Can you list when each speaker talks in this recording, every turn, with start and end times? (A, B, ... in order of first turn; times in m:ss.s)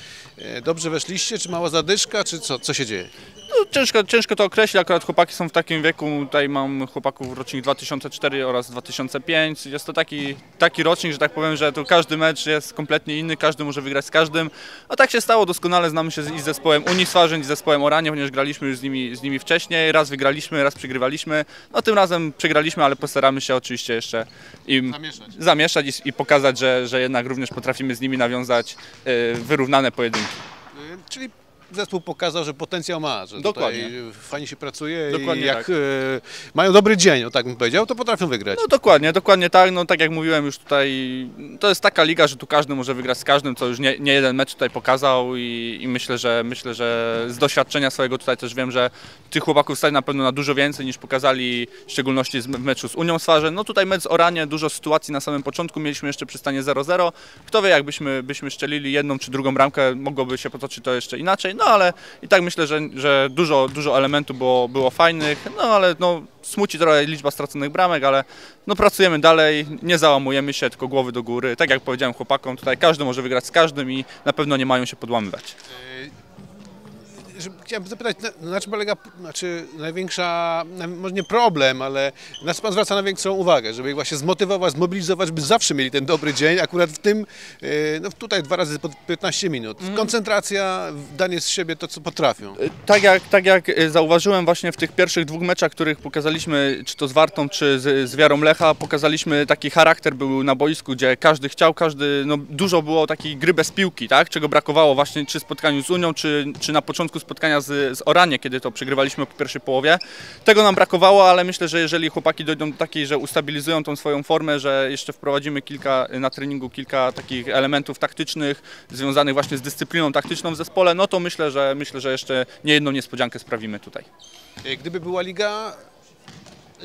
0:00.4-0:03.1 A
0:03.5-0:30.4 B
0:24.9-0:25.3 A
0:30.7-0:38.6 A
0:33.4-0:33.9 B
0:35.1-0:35.7 B
0:38.5-1:15.6 B
1:15.7-1:16.1 A
1:17.2-1:32.6 A
1:29.8-1:30.1 B
1:32.6-2:04.1 B
2:04.6-2:05.8 A